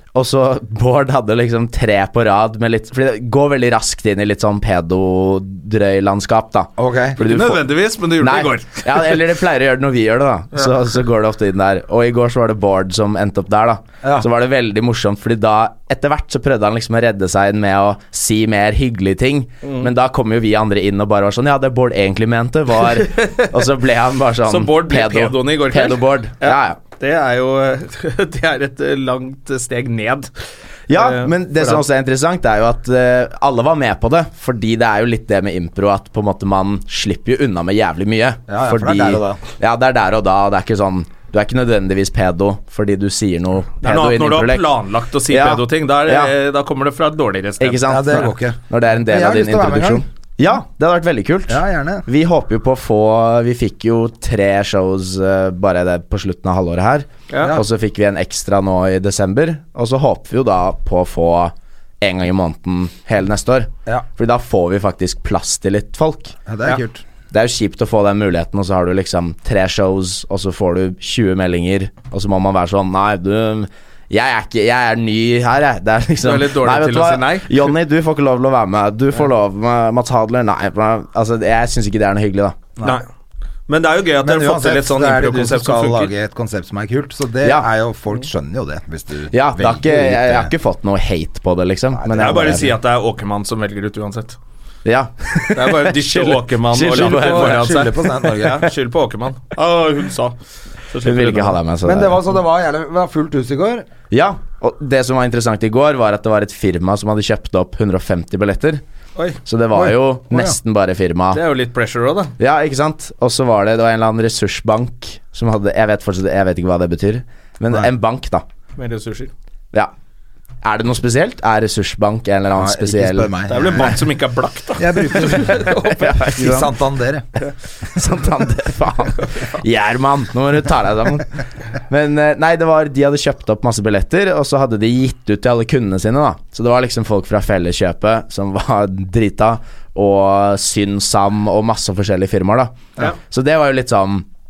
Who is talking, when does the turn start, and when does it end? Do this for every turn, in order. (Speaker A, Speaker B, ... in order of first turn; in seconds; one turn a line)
Speaker A: 0.1-7.7
Speaker B: 6.8-7.2
Speaker C: 7.2-9.3
Speaker A: 8.2-26.8
Speaker B: 14.0-14.3
Speaker C: 19.6-19.9
Speaker C: 23.0-23.5
Speaker C: 24.4-30.3
Speaker A: 30.9-44.8
Speaker C: 30.9-31.8
Speaker B: 38.5-39.4
Speaker C: 43.8-48.3
Speaker A: 45.3-46.3
Speaker A: 47.6-66.3
Speaker B: 47.9-50.0
Speaker B: 51.5-52.1
Speaker C: 57.3-57.6
Speaker B: 57.4-57.6
Speaker B: 66.5-67.0
Speaker A: 67.3-82.6
Speaker C: 76.2-77.8
Speaker C: 83.7-86.1
Speaker B: 84.2-90.5
Speaker A: 87.4-87.7
Speaker A: 89.3-92.7
Speaker B: 91.9-92.7
Speaker C: 92.1-94.4
Speaker A: 94.8-97.8
Speaker C: 95.5-101.6
Speaker B: 96.8-98.7
Speaker A: 101.0-102.2
Speaker B: 101.8-103.9
Speaker A: 104.1-108.8
Speaker A: 109.4-111.4
Speaker B: 109.7-110.6
Speaker C: 111.3-112.3
Speaker A: 112.4-118.4
Speaker C: 118.8-119.3
Speaker A: 120.6-123.3
Speaker B: 122.5-124.0
Speaker C: 123.5-126.4
Speaker B: 124.8-127.3
Speaker A: 126.0-126.7
Speaker A: 127.8-144.2